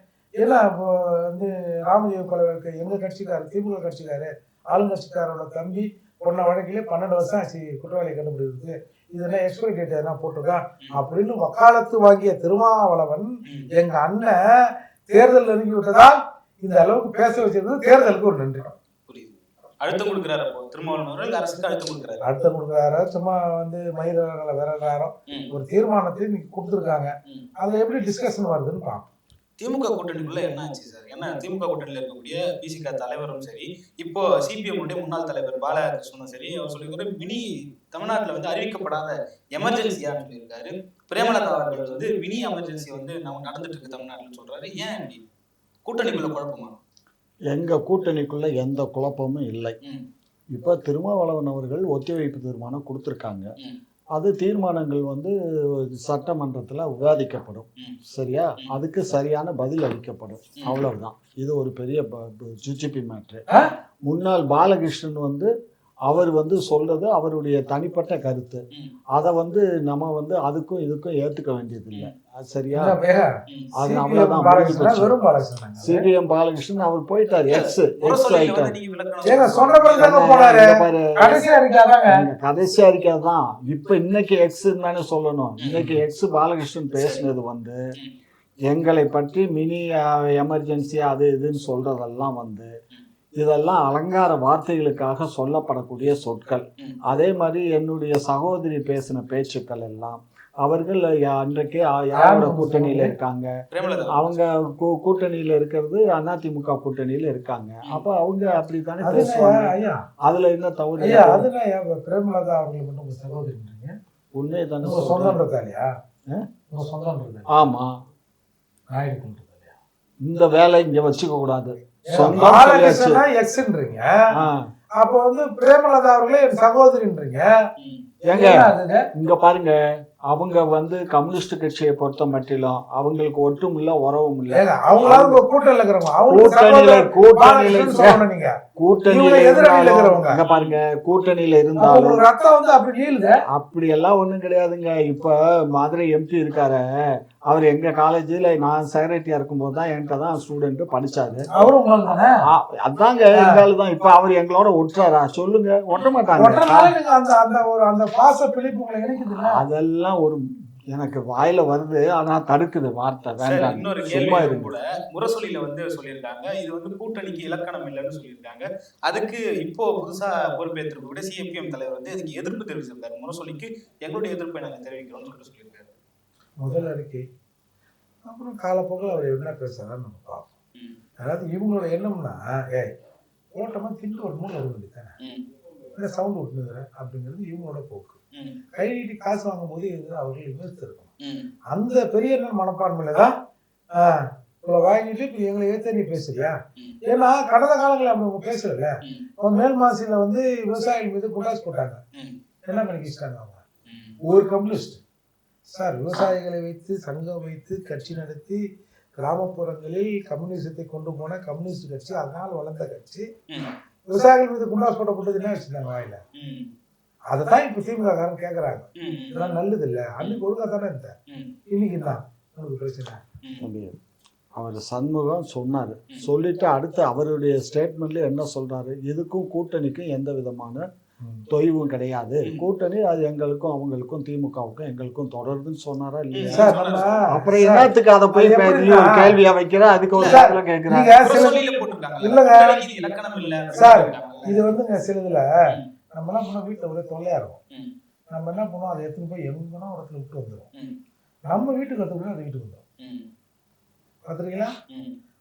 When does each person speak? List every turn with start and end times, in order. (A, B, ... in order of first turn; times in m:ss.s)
0:00.4-0:18.8 A
0:19.1-0:22.3 B
0:22.2-0:29.1 A
0:29.6-0:45.3 B
0:45.8-0:46.8 B
0:47.5-0:49.8 C
0:50.5-0:53.5 C
0:54.1-1:03.4 C
1:00.6-1:00.9 B
1:04.1-1:05.5 C
1:06.1-1:13.0 C
1:12.7-1:16.1 A
1:13.8-1:15.1 C
1:15.8-1:18.8 C
1:17.5-1:20.1 B
1:19.2-1:22.2 A
1:20.0-1:21.4 C
1:22.1-1:27.8 C
1:25.6-1:26.0 B
1:27.0-1:27.3 B
1:28.7-1:32.7 C
1:33.4-1:43.5 C
1:42.2-1:43.1 A
1:43.7-1:44.4 B
1:44.1-1:49.7 C
1:49.0-1:50.0 A
1:50.2-1:51.5 C
1:51.0-1:54.0 A
1:54.3-1:55.4 C
1:54.8-1:55.9 A
1:56.7-1:57.5 A
1:57.5-1:57.9 C
1:58.9-1:59.7 A
2:00.2-2:03.2 C
2:02.1-2:04.1 A
2:04.4-2:04.6 C
2:05.0-2:07.5 A
2:07.8-2:08.1 B
2:08.2-2:15.4 C
2:08.3-2:09.1 A
2:14.5-2:18.6 A
2:16.3-2:18.2 C
2:18.8-2:22.2 C
2:19.1-2:20.4 A
2:20.5-2:20.8 B
2:21.8-2:23.4 A
2:23.5-2:26.8 C
2:27.4-2:31.5 C
2:31.5-2:32.4 A
2:32.5-2:36.9 C
2:35.9-2:36.2 B
2:36.4-2:39.6 A
2:39.4-2:44.7 C
2:43.4-2:55.9 B
2:56.6-2:57.2 A
2:58.2-3:00.5 A
3:01.2-3:02.9 A
3:03.5-3:05.2 A
3:06.0-3:08.2 A
3:08.7-3:11.1 A
3:11.2-3:11.5 B
3:11.7-3:13.3 A
3:14.0-3:22.0 A
3:22.7-3:23.6 A
3:23.9-3:24.2 B
3:24.2-3:25.0 A
3:25.7-3:28.6 A
3:29.2-3:33.3 A
3:33.5-3:33.8 B
3:34.1-3:36.2 A
3:36.4-3:36.7 B
3:37.3-3:41.1 A
3:39.0-3:39.6 B
3:41.3-3:41.6 B
3:41.7-3:43.2 A
3:43.6-3:44.0 C
3:44.6-3:50.9 C
3:51.5-4:01.2 C
3:56.3-3:57.3 B
3:56.5-3:59.4 A
4:00.1-4:00.4 B
4:00.2-4:01.7 A
4:01.2-4:04.6 B
4:02.2-4:02.9 A
4:03.8-4:05.4 A
4:06.1-4:07.6 A
4:08.3-4:10.7 A
4:11.5-4:12.8 A
4:13.0-4:13.3 B
4:14.3-4:14.8 A
4:14.9-4:15.2 B